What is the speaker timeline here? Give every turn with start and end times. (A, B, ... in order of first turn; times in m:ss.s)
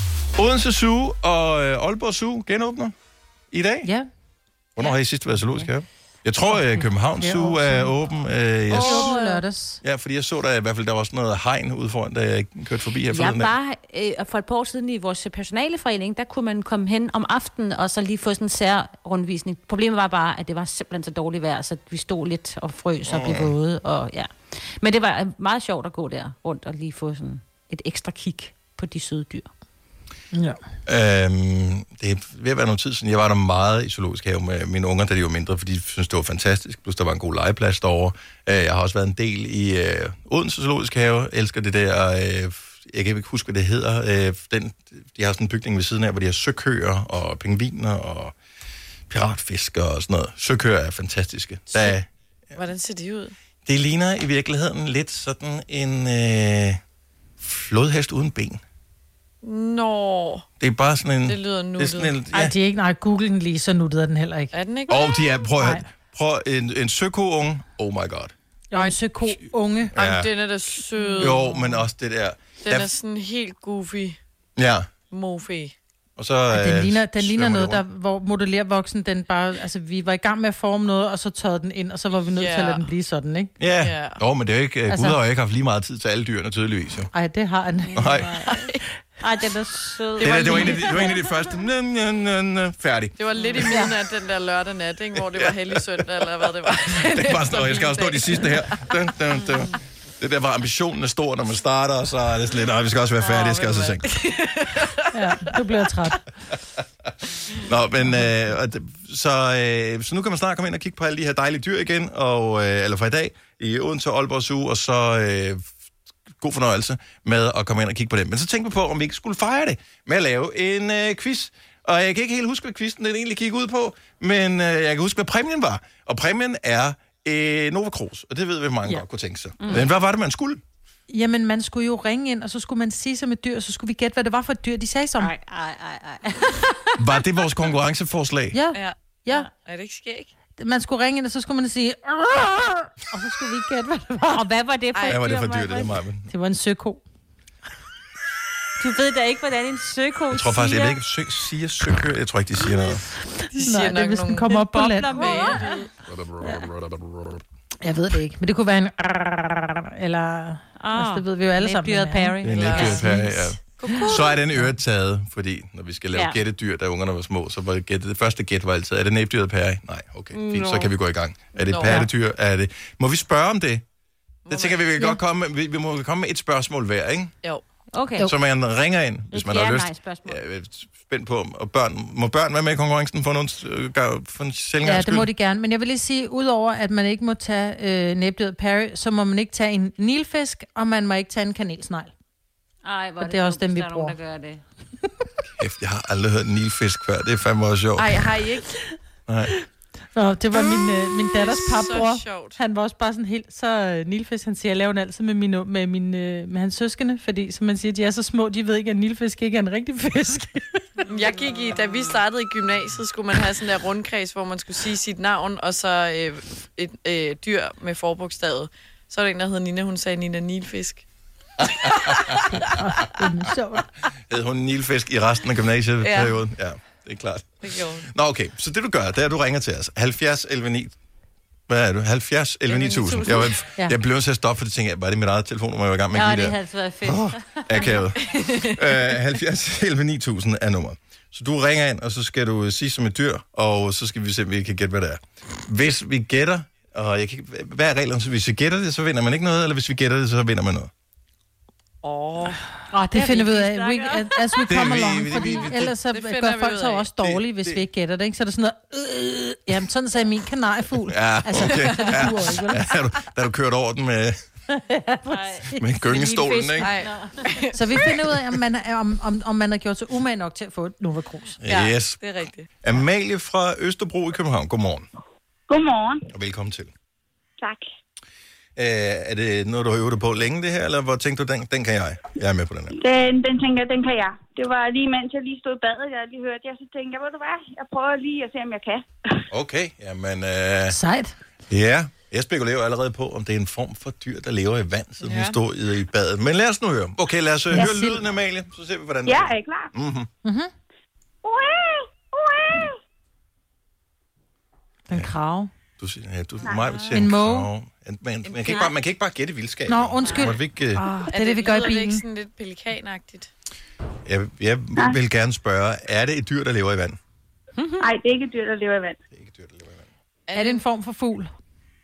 0:00.4-0:02.9 A
0:03.5-0:03.9 A
0:04.8-0:09.1 A
0:04.8-0:05.7 B
0:06.5-0:07.9 C
0:08.7-0:09.8 C
0:08.7-0:09.4 B
0:09.8-0:13.5 A
0:13.1-0:29.5 B
0:23.0-0:23.6 A
0:30.8-0:48.3 A
0:49.1-0:52.0 A
0:51.7-0:52.0 D
0:52.5-0:53.3 D
0:53.6-0:56.8 A
0:57.4-0:58.6 A
0:59.4-1:00.4 D
1:00.6-1:02.5 A
1:01.2-1:02.2 D
1:02.3-1:04.5 C
1:04.5-1:05.1 D
1:04.9-1:08.3 A
1:05.5-1:05.9 C
1:08.7-1:09.9 C
1:09.9-1:10.3 A
1:09.9-1:11.6 D
1:11.2-1:12.9 A
1:11.5-1:11.8 C
1:12.6-1:14.2 D
1:14.6-1:14.9 A
1:15.1-1:15.7 D
1:16.2-1:17.8 A
1:16.5-1:23.5 C
1:22.2-1:22.9 D
1:23.6-1:27.1 A
1:23.8-1:24.2 D
1:24.9-1:25.2 C
1:27.1-1:28.4 C
1:27.9-1:28.4 A
1:28.0-1:28.5 B
1:28.4-1:28.8 D
1:29.2-1:31.2 B
1:30.2-1:31.1 D
1:30.2-1:34.0 A
1:33.2-1:38.9 D
1:35.2-1:44.2 A
1:43.2-1:45.8 D
1:45.1-1:46.2 C
1:47.5-1:55.7 A
1:56.4-2:10.6 A
2:11.1-2:15.3 C
2:15.2-2:17.2 B
2:17.0-2:18.6 A
2:18.5-2:19.5 C
2:18.7-2:20.3 D
2:20.6-2:24.4 C
2:24.3-2:26.0 B
2:24.9-2:25.2 D
2:25.0-2:26.3 A
2:26.3-2:27.0 C
2:28.8-2:31.0 B
2:30.3-2:33.1 A
2:33.3-2:35.6 C
2:33.5-2:34.6 D
2:34.4-2:35.8 B
2:35.1-2:35.9 D
2:36.1-2:37.4 A
2:36.4-2:36.7 C
2:37.8-2:42.4 C
2:40.8-2:43.6 B
2:42.4-2:53.8 A
2:42.5-2:43.1 D
2:43.8-2:44.4 D
2:46.1-2:46.4 B
2:50.3-2:50.9 B
2:51.5-2:52.1 D
2:54.5-2:54.8 D
2:54.5-2:57.4 A
2:57.9-2:58.3 B
2:58.2-3:05.3 A
2:59.3-3:00.4 B
3:04.8-3:12.1 C
3:12.8-3:14.6 B
3:13.2-3:14.2 C
3:15.6-3:18.2 A
3:18.0-3:18.7 D
3:19.3-3:19.5 A
3:20.1-3:31.0 C
3:20.5-3:22.6 D
3:31.1-3:41.0 D
3:42.5-3:43.9 C
3:44.1-3:50.9 A
3:46.0-3:46.4 D
3:47.6-3:48.1 D
3:51.7-4:10.9 A
3:52.6-3:53.6 D
3:56.1-3:57.9 B
3:58.2-3:58.8 D
4:12.0-4:12.6 D
4:12.9-4:22.9 C
4:13.1-4:15.6 B
4:14.7-4:15.9 A
4:16.1-4:17.1 D
4:17.2-4:17.8 A
4:21.0-4:24.4 A
4:21.8-4:22.1 D
4:24.8-4:25.8 C
4:25.2-4:27.5 B
4:25.8-4:26.9 A
4:26.8-4:28.1 D
4:27.7-4:31.6 C
4:31.6-4:35.1 A
4:31.7-4:32.7 D
4:35.7-4:36.3 E
4:36.3-4:36.9 A
4:37.6-4:37.8 E
4:38.8-4:42.9 A
4:42.9-4:49.0 E
4:49.5-4:51.0 A
4:50.9-4:51.3 C
4:51.7-5:00.3 A
4:55.2-4:55.6 D
4:57.7-4:58.2 C
4:59.2-4:59.9 E
5:00.4-5:00.7 C
5:01.4-5:03.0 E
5:05.1-5:05.7 C
5:06.0-5:11.0 A
5:06.6-5:07.3 D
5:07.1-5:07.7 C
5:08.4-5:08.8 D
5:09.9-5:12.2 C
5:10.2-5:10.5 B
5:11.3-5:13.5 D
5:14.2-5:17.2 A
5:17.8-5:18.1 B
5:18.0-5:19.2 E
5:19.3-5:20.1 A
5:20.5-5:20.8 D
5:20.5-5:21.5 C